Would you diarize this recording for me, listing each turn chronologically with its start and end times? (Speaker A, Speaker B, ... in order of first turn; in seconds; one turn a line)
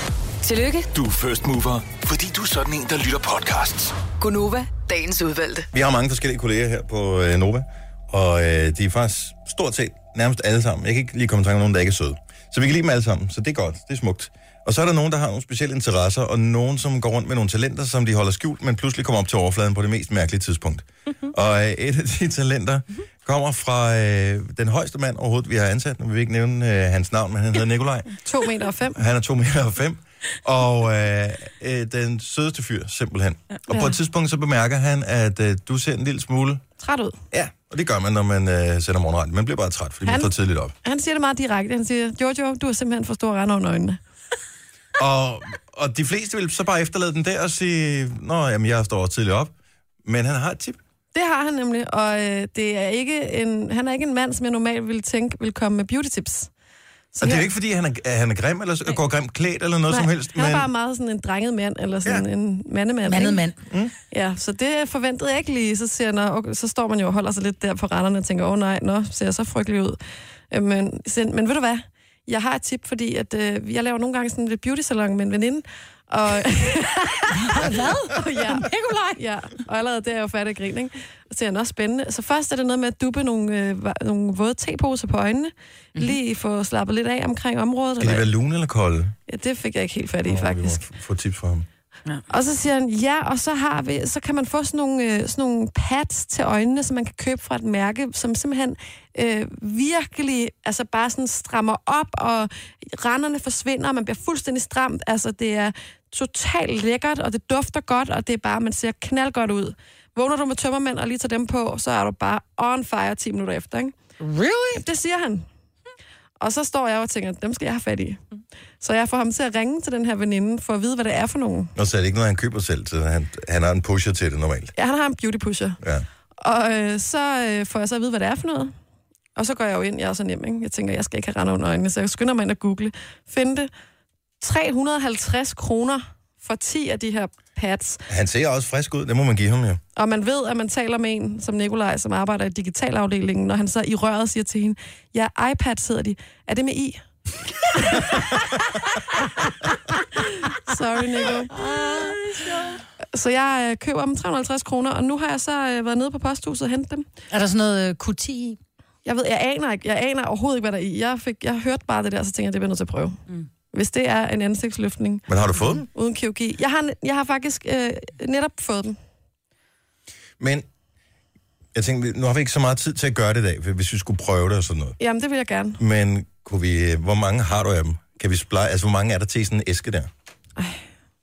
Speaker A: 0.4-0.9
Speaker B: 0.9-4.0
Speaker A: 4.2-5.7
Speaker C: 5.7-28.1
Speaker D: 28.2-29.0
Speaker C: 28.9-36.6
Speaker D: 33.7-33.9
Speaker D: 36.8-37.2
Speaker C: 37.3-40.7
Speaker D: 40.0-40.3
Speaker D: 40.8-44.0
Speaker C: 45.0-49.5
Speaker C: 50.0-50.8
Speaker D: 51.1-56.5
Speaker D: 57.1-57.5
Speaker C: 57.2-60.7
Speaker D: 59.9-63.4
Speaker E: 63.0-63.6
Speaker C: 63.7-63.9
Speaker D: 64.1-70.0
Speaker D: 70.5-88.3
Speaker E: 77.3-79.2
Speaker C: 88.0-89.1
Speaker D: 89.3-90.8
Speaker C: 90.2-91.7
Speaker D: 92.3-113.9
Speaker E: 114.2-114.8
Speaker D: 114.7-115.4
Speaker D: 116.4-118.2
Speaker D: 118.8-121.7
Speaker C: 121.8-124.7
Speaker D: 124.8-125.8
Speaker D: 126.4-128.7
Speaker D: 129.3-133.7
Speaker D: 134.4-138.0
Speaker C: 138.1-139.8
Speaker D: 139.9-147.0
Speaker D: 147.7-148.2
Speaker D: 150.2-151.5
Speaker D: 153.1-157.1
Speaker E: 157.3-158.6
Speaker D: 159.0-163.2
Speaker D: 163.7-165.2
Speaker C: 165.3-165.8
Speaker D: 165.9-169.0
Speaker C: 170.4-170.7
Speaker C: 171.7-175.0
Speaker D: 175.0-175.8
Speaker C: 175.8-180.1
Speaker D: 180.6-180.8